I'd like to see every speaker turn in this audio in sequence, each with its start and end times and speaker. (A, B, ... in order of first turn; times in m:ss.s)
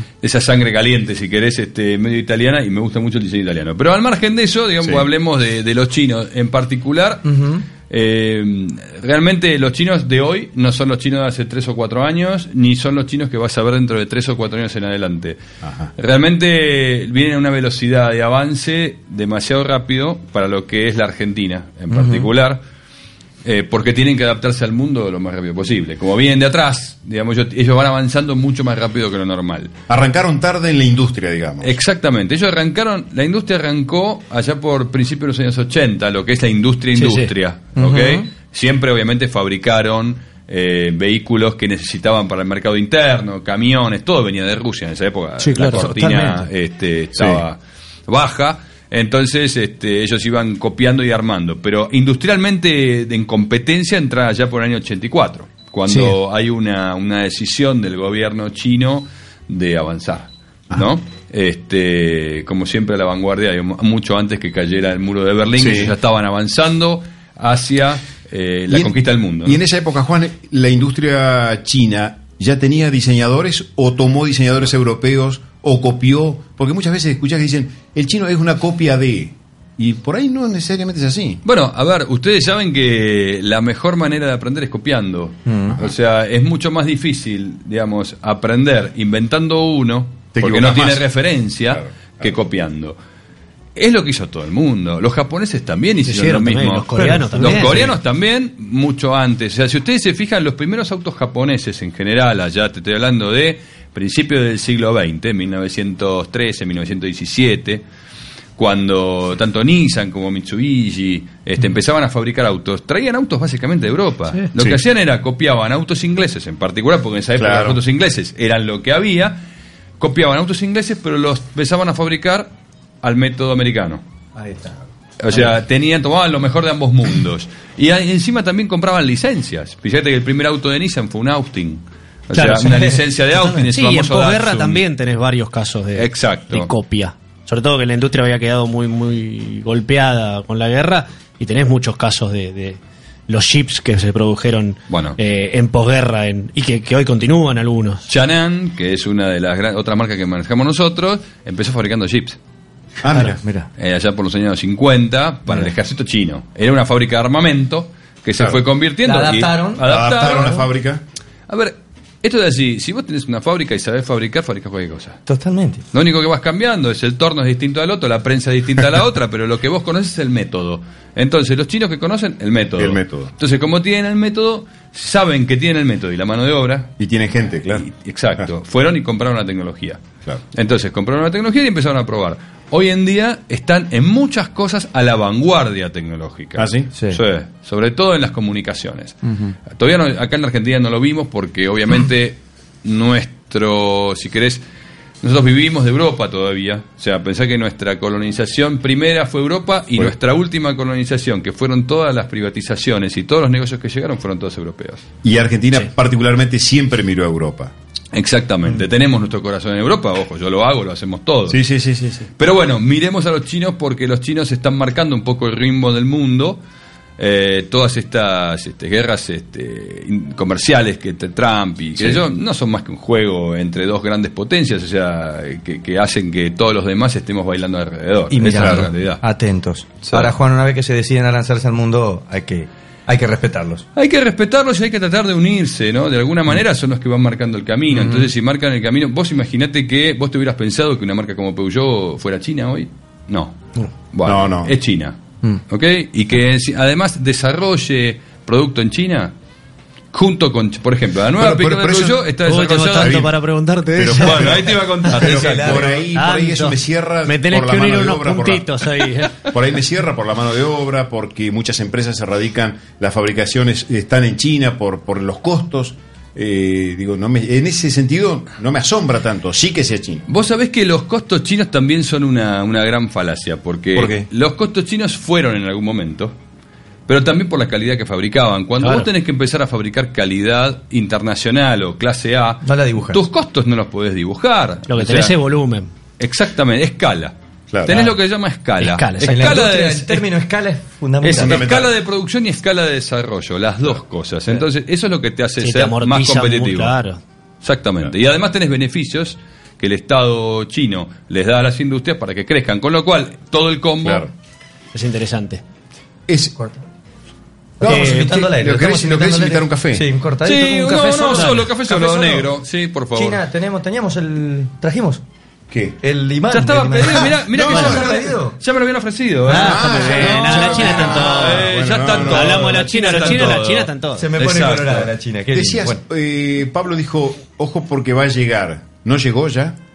0:00.2-0:15.4 A
0:04.8-0:05.1 B
0:07.3-0:07.6 C
0:15.6-0:15.9 B
0:16.0-0:22.6 A
0:21.9-0:22.3 C
0:23.4-0:29.7 A
0:29.9-0:31.7 B
0:31.6-1:09.6 A
0:37.0-0:37.3 D
0:37.8-0:38.3 C
0:45.4-0:45.9 D
0:45.6-0:46.5 C
0:47.2-0:47.4 B
0:55.9-0:56.2 D
1:05.6-1:05.9 B
1:08.7-1:21.4 B
1:21.4-1:33.0 A
1:25.5-1:25.8 C
1:30.4-1:31.1 B
1:31.7-1:32.3 B
1:33.8-1:47.8 A
1:36.0-1:38.0 D
1:37.0-1:37.9 C
1:48.6-1:59.4 A
1:57.4-1:57.8 B
2:00.0-2:02.5 A
2:03.0-2:04.0 A
2:04.4-2:04.8 C
2:05.2-2:14.8 A
2:12.4-2:13.0 C
2:13.3-2:28.0 D
2:16.0-2:16.7 A
2:24.9-2:25.2 A
2:28.1-2:32.4 A
2:33.0-2:33.4 B
2:33.1-2:33.7 C
2:33.8-2:40.7 A
2:39.0-2:39.8 C
2:39.8-2:41.0 B
2:41.5-2:45.2 A
2:45.3-2:45.8 C
2:45.9-2:57.0 A
2:52.8-2:53.3 B
2:57.0-2:57.9 B
2:57.7-3:14.6 A
3:06.6-3:06.9 B
3:07.0-3:07.2 C
3:09.3-3:09.5 C
3:15.2-3:25.0 A
3:25.2-3:27.7 B
3:28.1-3:31.6 A
3:31.5-3:32.3 B
3:32.4-3:36.6 A
3:37.2-3:49.2 A
3:48.3-3:53.9 C
3:48.6-3:48.9 B
3:54.0-4:09.3 A
3:57.9-3:58.3 C
4:04.2-4:04.8 B
4:10.1-4:13.3 A
4:11.4-4:12.3 B
4:12.4-4:14.7 D
4:13.0-4:13.3 B
4:13.9-4:18.9 B
4:14.1-4:16.0 A
4:15.0-4:16.0 C
4:16.1-4:19.4 D
4:19.4-4:30.3 B
4:30.3-4:36.4 A
4:34.0-4:34.3 B
4:37.1-4:45.4 A
4:38.8-4:39.1 D
4:42.6-4:43.2 C
4:44.9-4:45.9 D
4:46.2-4:50.3 A
4:47.7-4:48.1 B
4:48.8-4:49.6 D
4:49.2-4:51.7 C
4:51.2-4:57.0 A
4:51.3-4:51.9 B
4:55.6-4:57.2 D
4:57.6-5:04.3 A
5:04.0-5:04.3 B
5:04.9-5:05.6 D
5:06.3-5:06.6 B
5:07.8-5:12.5 C
5:07.8-5:10.0 B
5:07.8-5:08.4 D
5:10.4-5:13.4 A
5:11.3-5:11.6 D
5:13.1-5:15.2 C
5:15.7-5:16.0 B
5:16.0-5:18.6 C
5:16.5-5:25.1 A
5:17.5-5:18.2 B
5:17.7-5:18.0 D
5:19.5-5:24.3 D
5:19.5-5:22.8 B
5:19.6-5:20.8 C
5:22.8-5:26.0 C
5:25.5-5:29.8 B